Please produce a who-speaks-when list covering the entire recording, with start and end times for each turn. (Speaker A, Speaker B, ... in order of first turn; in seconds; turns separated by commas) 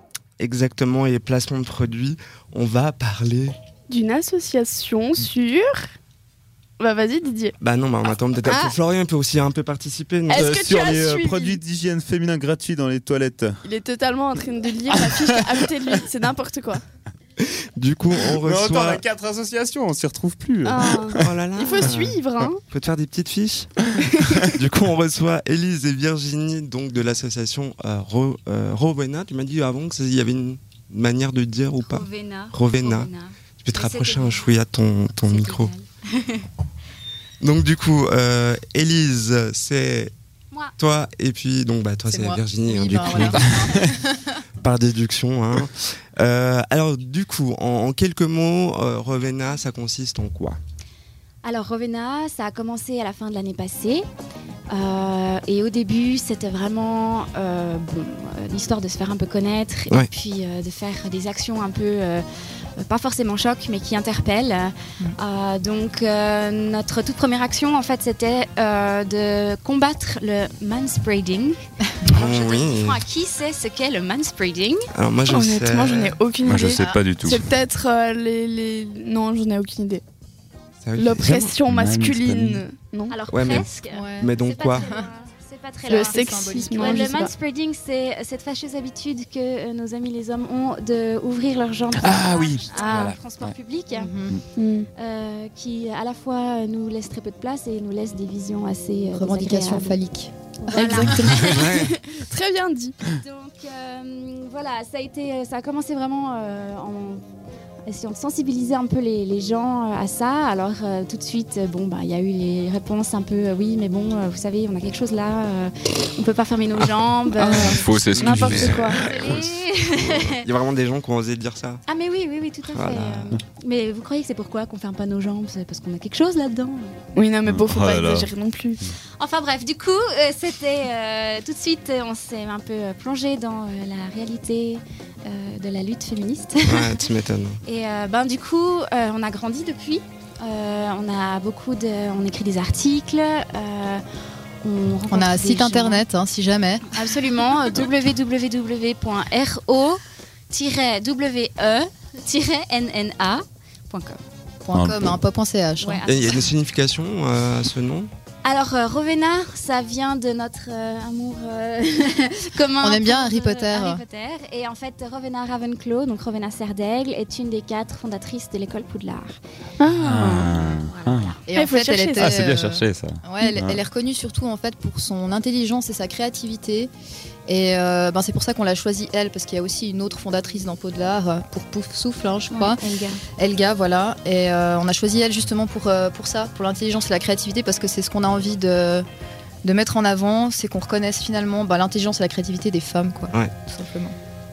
Speaker A: 0.4-3.5, Speaker B: 3.9-5.9, Speaker B: 6.8-7.5, Speaker A: 7.6-10.5, Speaker B: 10.3-11.6, Speaker C: 10.4-13.6, Speaker B: 13.6-16.8, Speaker C: 14.9-15.7, Speaker A: 17.4-19.0, Speaker C: 18.2-21.3, Speaker B: 20.6-22.6, Speaker A: 21.2-23.9, Speaker B: 24.1-24.5, Speaker A: 24.4-33.1, Speaker D: 31.8-34.5, Speaker A: 33.6-35.7, Speaker D: 35.2-36.5, Speaker A: 37.4-40.1, Speaker A: 40.8-43.4, Speaker E: 42.1-44.3, Speaker A: 44.6-50.6, Speaker D: 51.4-54.0, Speaker D: 54.7-62.3, Speaker D: 62.8-74.9, Speaker A: 72.1-73.0, Speaker A: 74.9-76.2, Speaker B: 75.3-80.0, Speaker C: 76.4-77.5, Speaker E: 76.7-77.0, Speaker A: 80.8-81.5, Speaker B: 81.0-83.1, Speaker C: 81.2-82.6, Speaker D: 83.1-94.2, Speaker A: 83.3-84.9, Speaker E: 83.9-85.1, Speaker E: 85.8-87.3, Speaker B: 85.9-87.3, Speaker C: 92.0-93.5, Speaker E: 93.9-94.4, Speaker B: 94.6-94.9, Speaker D: 95.0-100.0, Speaker E: 99.1-101.2, Speaker D: 100.6-101.9, Speaker B: 100.8-103.0, Speaker A: 101.3-101.9, Speaker D: 103.1-107.2, Speaker D: 107.9-120.4, Speaker C: 117.4-119.0, Speaker B: 117.5-119.0, Speaker A: 117.5-121.8, Speaker D: 121.9-127.0, Speaker A: 122.7-123.3, Speaker B: 127.2-128.9, Speaker C: 127.5-128.3, Speaker D: 129.2-137.0, Speaker A: 136.7-137.6, Speaker D: 137.7-144.0, Speaker D: 144.6-146.0, Speaker E: 145.1-146.9, Speaker D: 146.9-154.2, Speaker E: 154.7-156.0, Speaker C: 154.7-155.2, Speaker D: 155.8-156.4, Speaker A: 156.1-158.1, Speaker D: 158.4-169.4, Speaker E: 162.8-164.0, Speaker B: 169.8-170.6, Speaker C: 169.9-171.4, Speaker D: 170.8-171.4, Speaker E: 171.5-176.9, Speaker B: 171.5-172.4, Speaker C: 172.2-173.8, Speaker E: 177.5-182.8, Speaker D: 182.5-183.2, Speaker E: 183.4-189.1, Speaker E: 189.6-194.2